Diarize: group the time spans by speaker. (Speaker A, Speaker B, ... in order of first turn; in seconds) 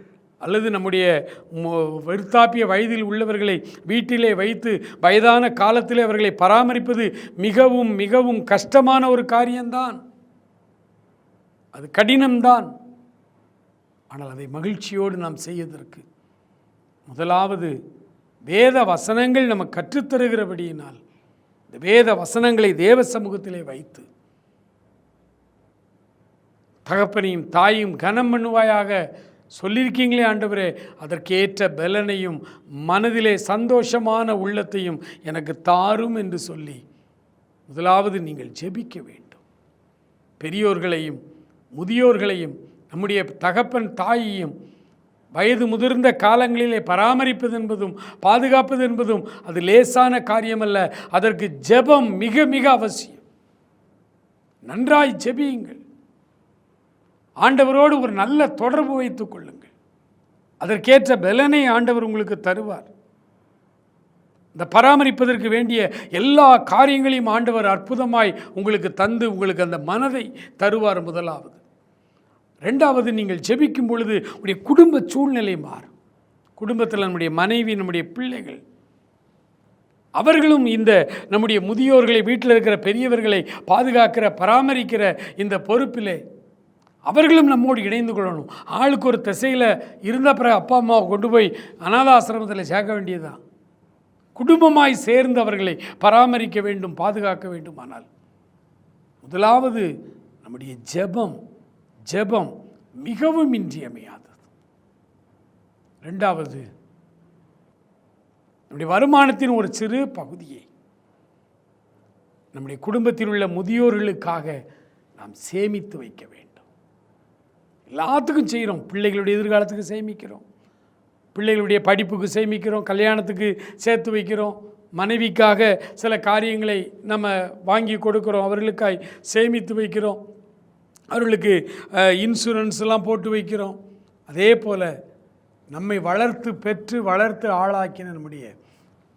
Speaker A: 0.4-10.0, 11.7-12.7, 14.1-16.1, 17.1-17.7, 18.5-21.0, 21.7-24.1, 26.9-29.0, 29.6-36.8, 37.7-39.4, 40.4-41.2, 41.8-44.5, 45.4-53.2, 54.7-55.8, 57.4-59.7, 60.6-62.9, 64.5-71.6, 72.7-75.9, 76.6-78.6, 80.2-86.2, 87.1-93.4, 94.4-98.1, 99.2-99.9, 100.4-101.4, 102.1-102.5, 103.0-104.4, 106.0-106.7, 108.7-110.7, 112.5-114.6, 115.2-116.7, 117.9-120.4, 121.3-130.2, 131.1-133.8, 134.3-134.9, 135.7-138.5